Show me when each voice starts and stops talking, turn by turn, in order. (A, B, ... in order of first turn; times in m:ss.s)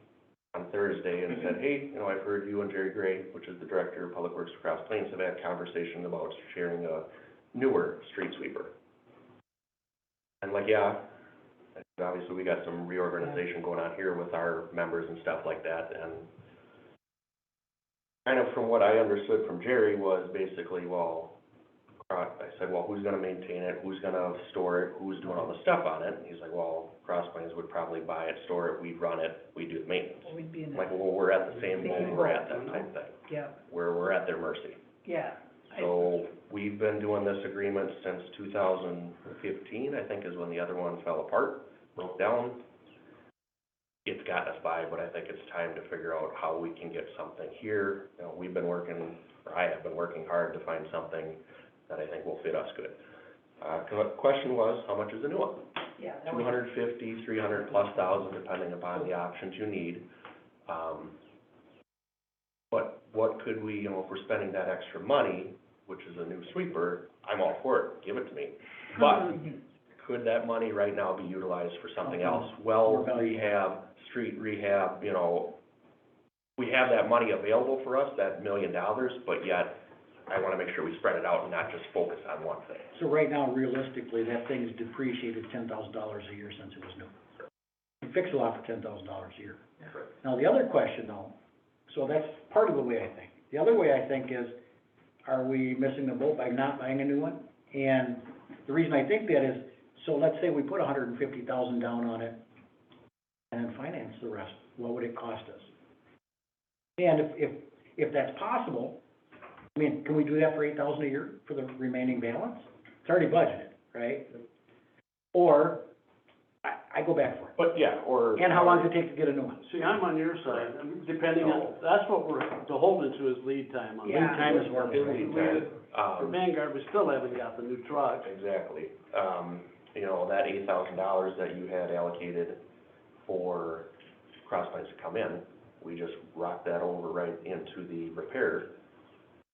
0:00.5-0:08.7 A
0:10.4-0:11.1 A
0:11.8-0:16.3 A
0:18.2-0:21.3 A
0:22.0-0:34.8 A
0:30.2-0:31.0 B
0:31.5-0:32.9 C
0:31.8-0:32.4 B
0:33.3-0:33.6 B
0:35.0-0:35.9 B
0:35.7-0:42.6 A
0:44.0-0:53.0 A
0:53.6-0:55.7 A
0:56.0-0:56.5 B
0:56.2-1:00.1 A
1:00.7-1:01.2 A
1:02.7-1:15.6 A
1:12.0-1:13.6 D
1:16.6-1:22.9 A
1:22.9-1:27.1 D
1:28.0-1:29.6 D
1:30.2-1:31.3 D
1:31.9-1:34.5 D
1:35.2-1:42.4 D
1:43.5-1:45.7 D
1:47.0-1:49.0 D
1:49.7-1:54.4 D
1:55.3-1:55.8 D
1:56.6-1:57.5 D
1:57.6-1:58.9 A
1:58.4-1:59.6 D
1:59.6-2:08.3 C
2:00.4-2:00.7 A
2:01.4-2:01.8 A
2:04.0-2:05.7 D
2:04.0-2:04.6 B
2:05.3-2:06.4 A
2:08.2-2:12.6 A
2:13.2-2:13.9 A
2:14.4-2:18.8 A